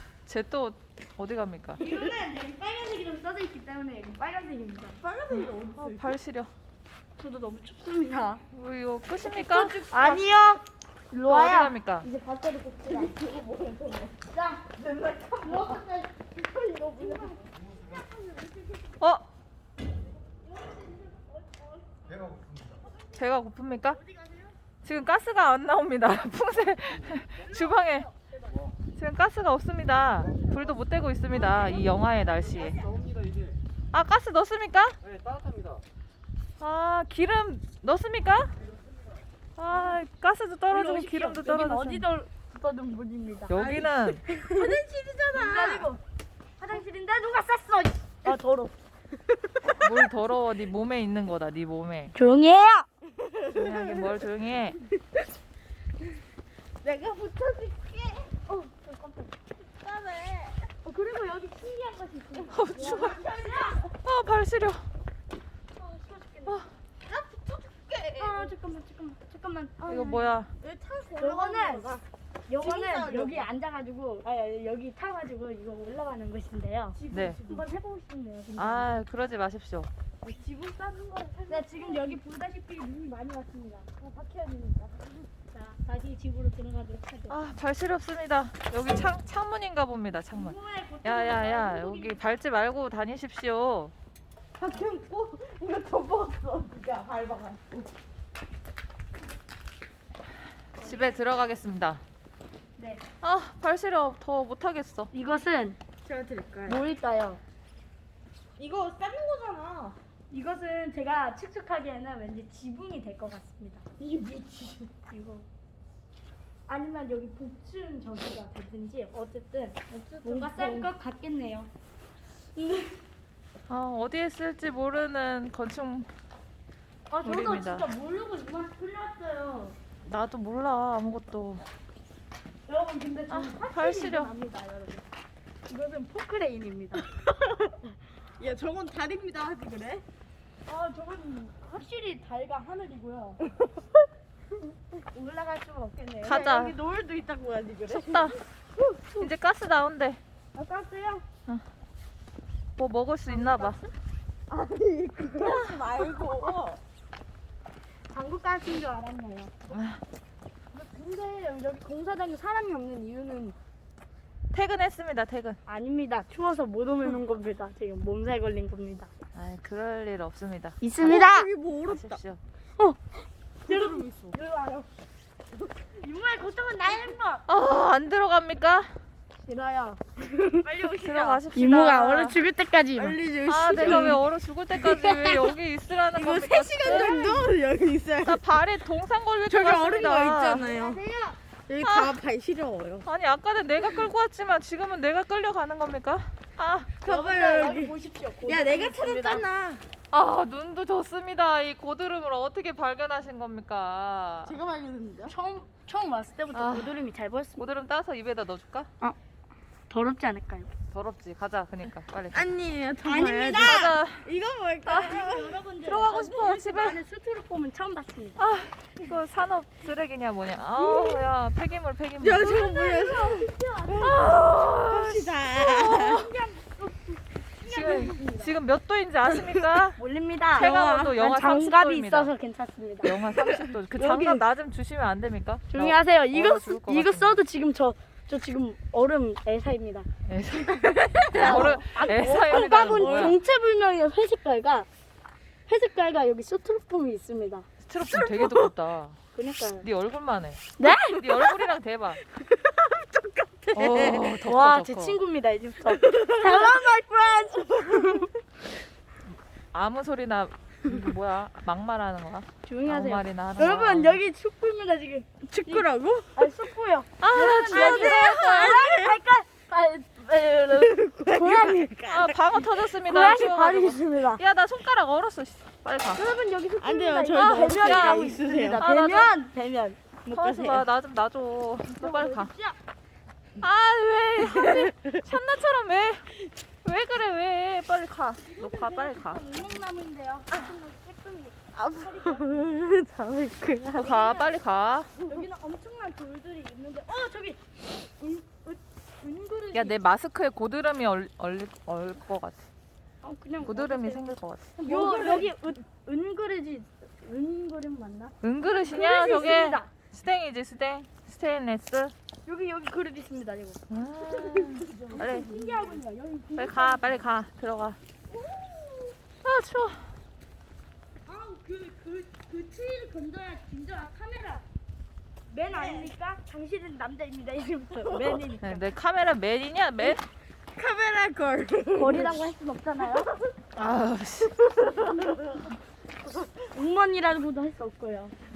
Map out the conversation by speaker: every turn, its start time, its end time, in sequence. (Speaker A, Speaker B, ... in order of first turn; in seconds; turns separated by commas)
Speaker A: 0.2-1.8, Speaker B: 1.8-5.0, Speaker C: 1.8-2.1, Speaker C: 5.0-6.2, Speaker A: 5.3-6.5, Speaker B: 7.2-8.4, Speaker A: 8.5-9.8, Speaker C: 9.2-10.3, Speaker B: 9.6-13.1, Speaker A: 11.2-12.1, Speaker C: 12.8-14.2, Speaker B: 14.3-14.7, Speaker C: 14.8-15.9, Speaker B: 15.4-18.0, Speaker C: 17.0-18.8, Speaker A: 19.0-19.2, Speaker B: 20.6-21.9, Speaker A: 23.1-24.0, Speaker A: 24.8-28.1, Speaker B: 27.5-27.9, Speaker A: 28.9-32.8, Speaker A: 33.9-35.0, Speaker A: 36.6-38.5, Speaker A: 39.6-42.0, Speaker B: 40.7-43.6, Speaker A: 43.5-44.2, Speaker C: 43.5-45.9, Speaker B: 44.2-44.7, Speaker B: 45.3-46.0, Speaker B: 46.6-48.7, Speaker C: 49.3-50.0, Speaker A: 49.7-52.1, Speaker B: 52.1-52.9, Speaker C: 53.2-54.2, Speaker A: 53.5-54.8, Speaker C: 56.8-58.3, Speaker B: 58.5-59.3, Speaker C: 59.8-60.6, Speaker B: 60.8-63.8, Speaker C: 62.4-63.9, Speaker A: 62.5-63.3, Speaker A: 64.0-64.9, Speaker B: 65.8-66.7, Speaker C: 67.0-68.5, Speaker B: 68.2-70.4, Speaker A: 69.9-70.5, Speaker C: 70.6-72.0, Speaker B: 71.2-71.9, Speaker B: 72.5-79.0, Speaker C: 72.6-73.5, Speaker C: 77.0-77.7, Speaker A: 77.1-77.4, Speaker A: 78.6-79.9, Speaker C: 80.2-82.2, Speaker B: 81.5-83.9, Speaker C: 84.0-85.2, Speaker B: 85.5-87.4, Speaker A: 87.3-93.9, Speaker B: 90.3-92.2, Speaker C: 94.6-97.9, Speaker B: 100.8-101.1, Speaker A: 100.8-102.0, Speaker B: 102.8-103.0, Speaker A: 103.2-105.1, Speaker B: 105.1-105.8, Speaker C: 106.0-106.8, Speaker B: 106.7-107.4, Speaker C: 108.6-110.0, Speaker B: 110.3-113.8, Speaker C: 114.0-114.9, Speaker B: 115.1-115.5, Speaker B: 116.7-121.7, Speaker C: 119.9-120.9, Speaker B: 122.5-123.0, Speaker A: 123.7-126.1, Speaker B: 127.1-129.8, Speaker A: 127.2-127.9, Speaker A: 130.0-131.6, Speaker B: 132.7-135.0, Speaker A: 133.3-134.3, Speaker B: 135.7-137.1, Speaker C: 137.2-137.8, Speaker C: 138.4-140.0, Speaker B: 140.7-143.5, Speaker B: 145.1-146.4, Speaker A: 146.2-146.8, Speaker C: 146.2-149.0, Speaker A: 147.9-148.4, Speaker A: 149.1-150.2, Speaker B: 150.5-151.2, Speaker A: 152.8-153.8, Speaker B: 153.3-153.9, Speaker C: 154.5-156.8, Speaker B: 158.1-159.5, Speaker A: 159.7-160.0, Speaker B: 160.7-163.6, Speaker A: 164.5-165.6, Speaker B: 165.7-169.1, Speaker A: 169.3-170.8, Speaker B: 170.8-171.5, Speaker C: 171.0-172.2, Speaker A: 171.8-172.4, Speaker B: 172.8-174.9, Speaker C: 173.7-174.4, Speaker B: 176.0-177.4, Speaker A: 177.5-178.9, Speaker B: 179.4-180.7, Speaker C: 180.6-181.4, Speaker A: 180.8-182.4, Speaker B: 181.5-183.2, Speaker C: 182.9-184.2, Speaker A: 183.5-187.2, Speaker B: 183.8-184.2, Speaker C: 184.8-185.5, Speaker C: 186.1-188.4, Speaker B: 186.8-187.4, Speaker A: 188.2-190.7, Speaker C: 189.5-191.0, Speaker B: 190.6-191.4, Speaker C: 191.7-193.1, Speaker A: 191.8-192.2, Speaker A: 193.0-196.9, Speaker C: 197.0-197.9, Speaker B: 197.1-199.4, Speaker C: 198.4-199.8, Speaker A: 200.1-204.6, Speaker C: 204.4-205.3, Speaker B: 205.3-207.7, Speaker A: 206.5-207.0, Speaker A: 207.6-208.9, Speaker B: 209.9-210.7, Speaker A: 210.9-212.5, Speaker C: 212.3-216.5, Speaker B: 213.0-213.9, Speaker A: 213.6-214.3, Speaker B: 214.9-218.4, Speaker A: 215.8-217.0, Speaker A: 218.4-222.6, Speaker C: 220.7-221.2, Speaker C: 222.2-226.3, Speaker B: 222.4-224.2, Speaker A: 223.9-226.3, Speaker B: 226.1-228.5, Speaker A: 227.7-230.0, Speaker B: 230.0-233.2, Speaker A: 230.5-232.3, Speaker A: 233.0-237.4, Speaker B: 233.9-234.4, Speaker B: 235.7-240.1, Speaker A: 240.3-243.4, Speaker C: 240.8-241.8, Speaker B: 241.3-244.9, Speaker C: 242.4-243.2, Speaker B: 245.7-247.7, Speaker A: 247.8-249.2, Speaker C: 248.1-248.7, Speaker B: 249.3-249.8, Speaker A: 249.8-252.2, Speaker B: 250.8-251.2, Speaker C: 252.3-254.3, Speaker A: 253.7-255.2, Speaker B: 254.1-258.3, Speaker C: 255.9-256.7, Speaker C: 257.8-258.2, Speaker A: 259.7-264.2, Speaker B: 262.6-271.9, Speaker C: 265.6-266.7, Speaker A: 267.2-268.8, Speaker C: 267.6-269.2, Speaker C: 270.7-272.8, Speaker A: 272.1-276.2, Speaker B: 273.0-274.4, Speaker B: 276.1-280.0, Speaker C: 276.8-278.8, Speaker A: 277.3-279.3, Speaker C: 280.2-280.8, Speaker A: 280.3-282.5, Speaker B: 281.9-282.8, Speaker A: 283.6-286.3, Speaker C: 284.5-285.2, Speaker A: 286.8-289.4, Speaker B: 288.5-292.7, Speaker C: 291.7-294.2, Speaker A: 293.9-295.1, Speaker B: 294.0-294.5, Speaker B: 295.2-300.0, Speaker A: 299.7-302.7, Speaker B: 303.2-309.9, Speaker A: 303.6-304.7, Speaker C: 304.8-305.5, Speaker A: 308.4-312.1, Speaker B: 312.4-313.8, Speaker A: 313.9-315.5, Speaker C: 314.3-316.0, Speaker B: 315.1-317.2, Speaker A: 316.6-318.0, Speaker C: 318.3-319.1, Speaker A: 319.4-320.1, Speaker B: 321.2-324.6, Speaker B: 325.5-328.9, Speaker C: 325.6-326.1, Speaker C: 328.1-328.4, Speaker A: 328.6-330.2, Speaker C: 330.7-332.4, Speaker B: 331.9-333.3, Speaker A: 333.7-334.8, Speaker B: 336.6-338.3